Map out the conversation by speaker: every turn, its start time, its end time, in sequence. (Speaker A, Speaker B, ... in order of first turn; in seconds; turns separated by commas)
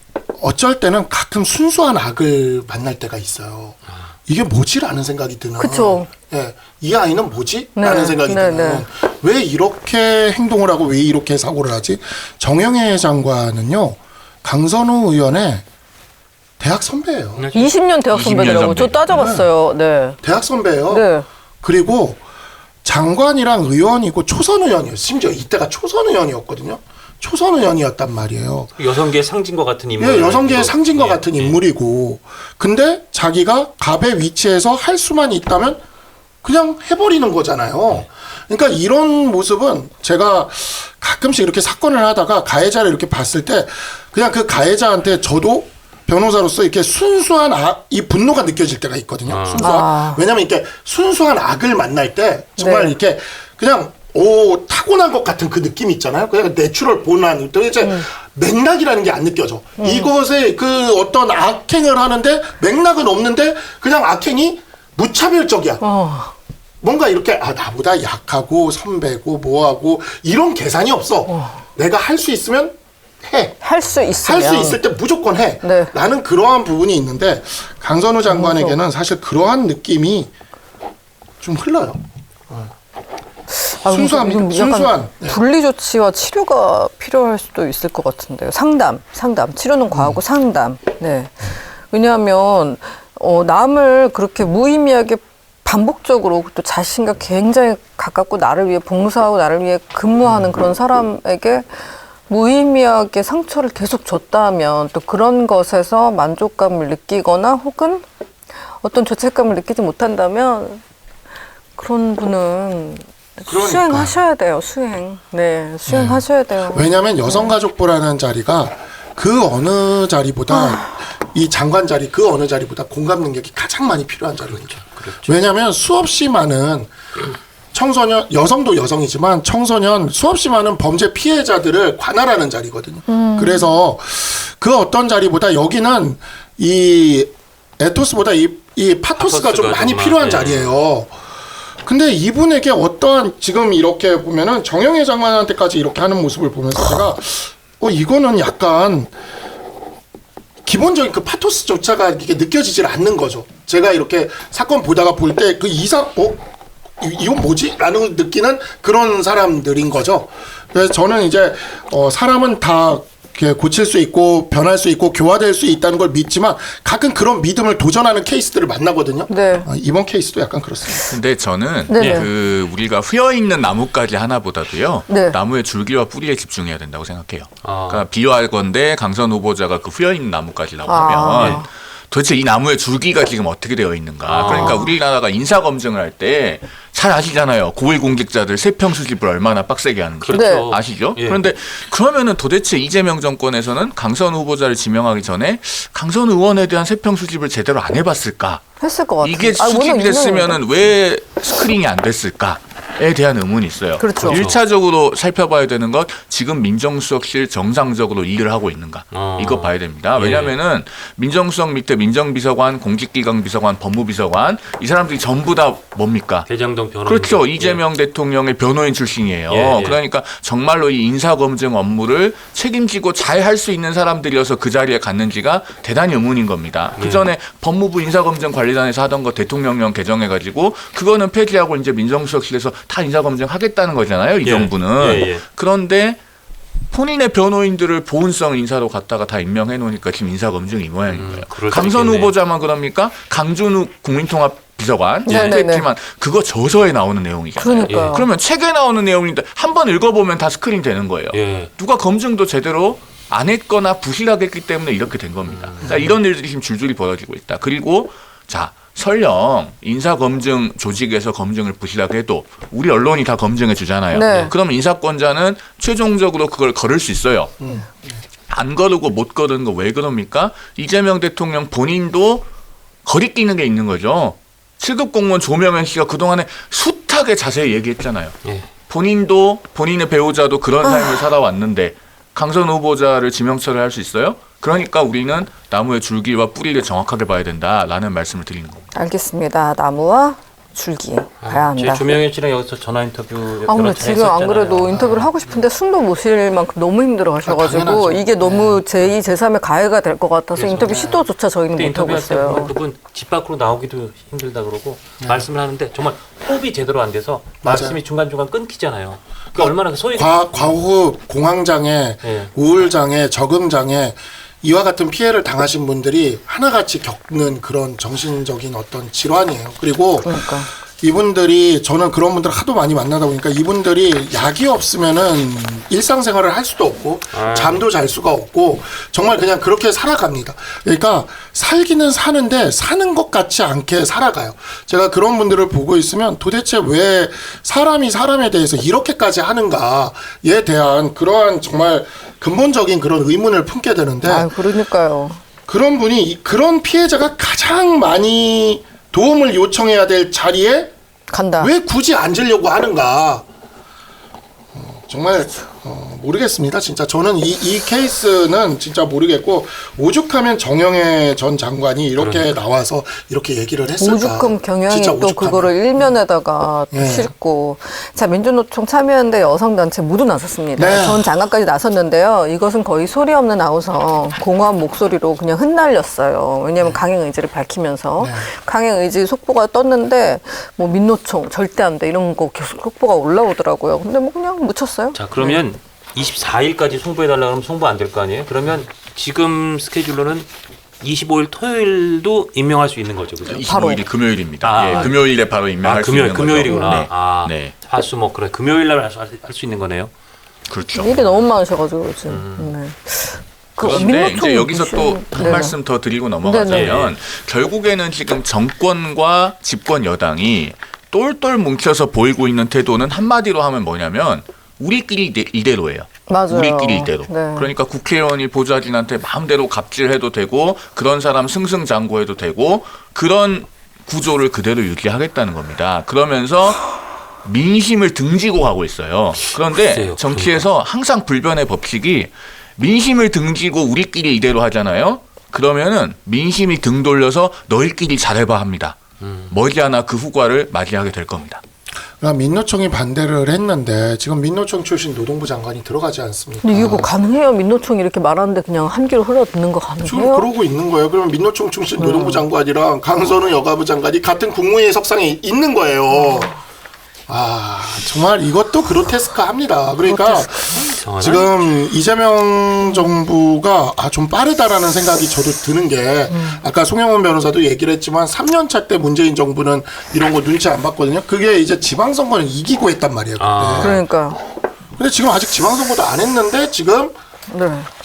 Speaker A: 0.4-15.6, Speaker B: 5.6-6.1, Speaker B: 7.8-8.8, Speaker A: 16.6-17.5, Speaker C: 17.4-17.7, Speaker B: 17.5-20.2, Speaker D: 18.1-19.1, Speaker A: 19.1-19.5, Speaker A: 20.2-21.1, Speaker B: 20.9-21.2, Speaker A: 21.6-22.2, Speaker A: 22.8-28.8, Speaker C: 28.8-31.6, Speaker A: 30.0-35.8, Speaker A: 36.4-65.8, Speaker C: 49.3-49.7, Speaker B: 49.5-50.2, Speaker B: 52.6-53.0, Speaker B: 59.8-60.1, Speaker B: 65.8-66.3, Speaker A: 66.8-73.6, Speaker B: 71.3-71.6, Speaker B: 73.6-74.8, Speaker A: 74.2-80.3, Speaker B: 75.6-75.9, Speaker B: 78.3-78.8, Speaker A: 81.4-82.7, Speaker B: 83.5-101.7, Speaker A: 83.8-85.4, Speaker A: 89.9-90.2, Speaker B: 102.3-108.0, Speaker B: 108.8-110.8, Speaker B: 111.8-117.5, Speaker A: 113.5-114.2, Speaker A: 115.9-126.9, Speaker B: 120.5-120.8, Speaker C: 124.5-125.3, Speaker A: 127.7-141.1, Speaker B: 133.1-133.7, Speaker C: 139.2-140.7, Speaker A: 141.8-149.1, Speaker A: 150.7-156.4, Speaker A: 157.0-171.2, Speaker B: 169.3-169.7, Speaker D: 171.1-198.6, Speaker B: 171.9-172.3, Speaker C: 172.0-172.3, Speaker B: 175.1-175.4, Speaker C: 177.6-178.0, Speaker B: 180.9-181.7, Speaker C: 181.3-181.6, Speaker C: 184.2-184.8, Speaker B: 184.4-184.9, Speaker C: 190.2-191.4, Speaker B: 190.3-190.7, Speaker B: 198.8-200.6, Speaker D: 199.2-216.5, Speaker B: 204.0-204.4, Speaker C: 204.2-204.6, Speaker C: 209.1-210.5, Speaker C: 216.4-217.8, Speaker D: 217.0-236.2, Speaker C: 219.5-220.0, Speaker C: 226.9-227.3, Speaker C: 234.4-235.4, Speaker D: 236.9-267.6, Speaker C: 241.1-242.3, Speaker B: 245.2-245.9, Speaker B: 247.6-248.3, Speaker C: 247.9-248.3, Speaker C: 251.3-251.7, Speaker C: 255.4-256.1, Speaker B: 264.1-264.5, Speaker A: 267.6-268.2, Speaker D: 268.5-272.4, Speaker D: 273.0-288.9, Speaker B: 280.8-281.2, Speaker B: 288.9-292.1, Speaker C: 291.4-295.3, Speaker B: 293.6-302.7, Speaker A: 294.9-295.2, Speaker A: 297.4-298.8, Speaker C: 300.5-301.2, Speaker A: 300.8-301.1, Speaker C: 301.7-310.8, Speaker A: 305.2-305.4, Speaker A: 307.6-308.0, Speaker A: 309.6-344.5, Speaker C: 312.2-312.5, Speaker B: 320.2-320.7, Speaker C: 327.3-327.8, Speaker B: 344.2-345.4, Speaker A: 345.6-350.9, Speaker B: 351.3-351.7, Speaker A: 351.6-353.4, Speaker A: 354.7-366.1, Speaker C: 362.2-362.5, Speaker B: 364.0-385.6, Speaker A: 366.9-367.3, Speaker A: 370.8-371.4, Speaker A: 378.2-378.5, Speaker C: 385.1-390.5, Speaker C: 391.0-393.7, Speaker D: 393.5-397.7, Speaker B: 393.6-394.0, Speaker C: 394.6-395.2, Speaker C: 395.8-400.1, Speaker B: 396.7-397.0, Speaker D: 400.7-401.2, Speaker B: 401.0-405.8, Speaker C: 402.3-402.8, Speaker D: 403.8-426.9, Speaker C: 403.8-404.1, Speaker B: 406.4-407.0, Speaker C: 406.7-407.1, Speaker B: 416.3-417.7, Speaker D: 427.4-439.0, Speaker C: 429.7-430.6, Speaker C: 439.2-439.5, Speaker D: 439.5-441.6, Speaker A: 442.2-447.1, Speaker B: 446.6-450.5, Speaker A: 450.0-456.5, Speaker B: 452.0-452.4, Speaker B: 456.1-456.4, Speaker A: 457.3-474.0, Speaker B: 460.0-461.4, Speaker C: 460.7-461.6, Speaker B: 462.9-463.1, Speaker B: 466.3-466.6, Speaker C: 473.4-474.0, Speaker B: 473.8-474.4, Speaker A: 474.9-477.1, Speaker B: 477.5-477.9